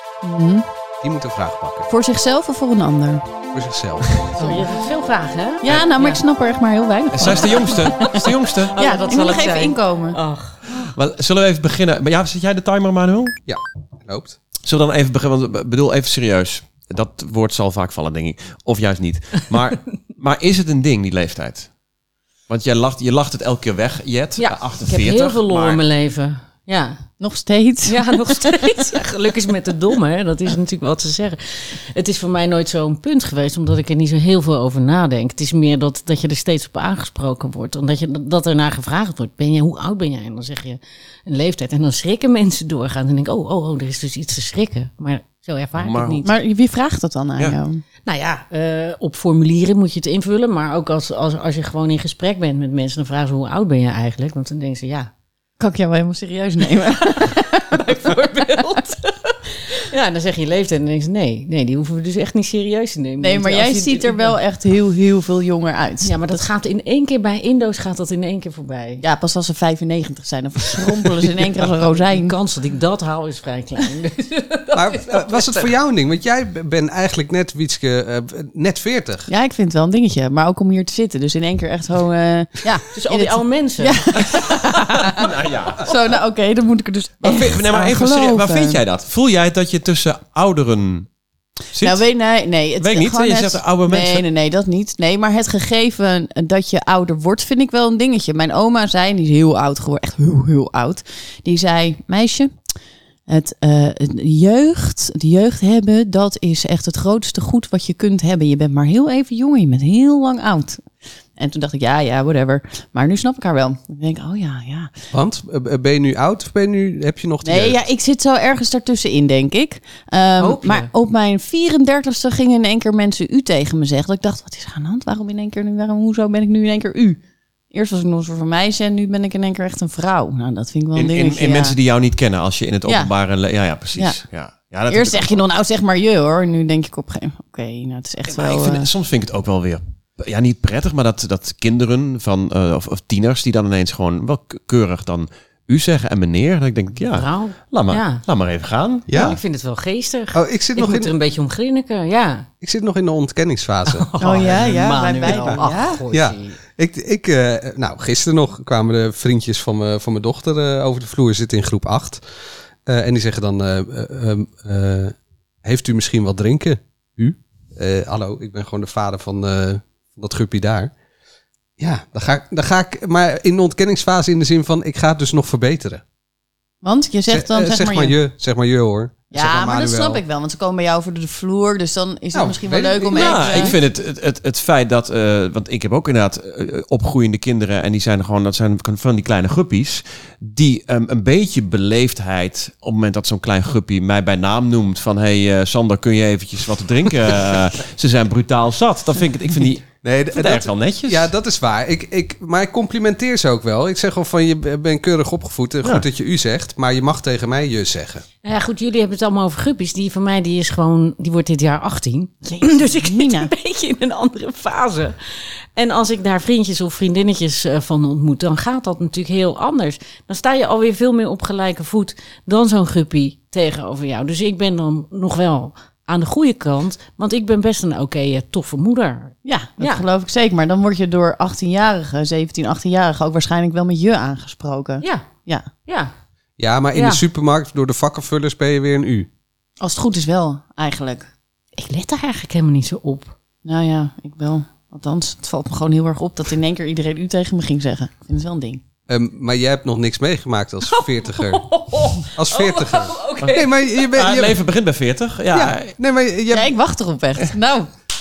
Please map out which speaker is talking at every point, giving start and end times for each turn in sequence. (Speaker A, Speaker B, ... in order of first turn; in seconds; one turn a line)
Speaker A: 0.2-0.7
Speaker B: 1.0-1.9
Speaker A: 1.9-3.2
Speaker B: 3.5-4.2
Speaker C: 4.4-6.2
Speaker A: 4.4-4.7
Speaker A: 5.6-10.2
Speaker D: 7.1-8.8
Speaker C: 8.8-10.6
Speaker D: 10.7-13.3
Speaker B: 13.5-14.4
Speaker D: 14.6-21.7
Speaker D: 22.5-25.8
Speaker C: 24.4-27.0
Speaker A: 27.2-28.7
Speaker C: 27.9-46.3
Speaker D: 45.8-46.3
Speaker A: 46.2-47.8
Speaker C: 48.1-55.1
Speaker A: 55.6-58.1
Speaker C: 56.8-64.3
Speaker A: 63.2-66.4
Speaker C: 66.0-69.0
Speaker A: 69.0-72.3
Speaker C: 72.0-75.7
Speaker B: 74.7-79.3
Speaker A: 79.3-85.2
Speaker C: 82.7-84.1
Speaker D: 85.0-85.9
Speaker A: 85.8-88.8
Speaker D: 87.2-91.1
Speaker D: 91.7-92.0
Speaker A: 91.8-102.5
Speaker D: 92.8-94.2
Speaker A: 103.3-110.8
Speaker A: 111.4-114.9
Speaker B: 115.1-117.8
Speaker A: 117.4-127.2
Speaker C: 120.4-120.9
Speaker A: 127.7-131.8
Speaker D: 130.9-135.4
Speaker A: 132.9-133.1
Speaker A: 134.0-134.2
Speaker A: 134.9-138.9
Speaker D: 138.3-149.4
Speaker C: 147.1-148.2
Speaker B: 149.1-149.4
Speaker C: 149.1-152.5
Speaker B: 150.3-151.1
Speaker B: 152.6-162.2
Speaker C: 153.8-156.6
Speaker A: 154.2-156.0
Speaker B: 162.9-170.9
Speaker B: 171.8-176.0
Speaker A: 176.8-178.2
Speaker B: 177.3-180.2
Speaker A: 179.3-183.8
Speaker B: 182.3-183.7
Speaker D: 183.1-201.3
Speaker B: 200.0-208.2
Speaker C: 208.4-215.2
Speaker A: 212.5-213.5
Speaker C: 215.8-230.1
Speaker A: 229.4-235.7
Speaker C: 235.8-236.1
Speaker B: 236.6-239.3
Speaker C: 236.9-237.2
Speaker A: 239.8-241.3
Speaker C: 241.8-243.3
Speaker A: 243.7-248.8
Speaker B: 249.1-251.6
Speaker C: 250.9-253.8
Speaker B: 252.3-254.6
Speaker D: 254.1-255.9
Speaker B: 255.5-256.8
Speaker A: 256.5-257.9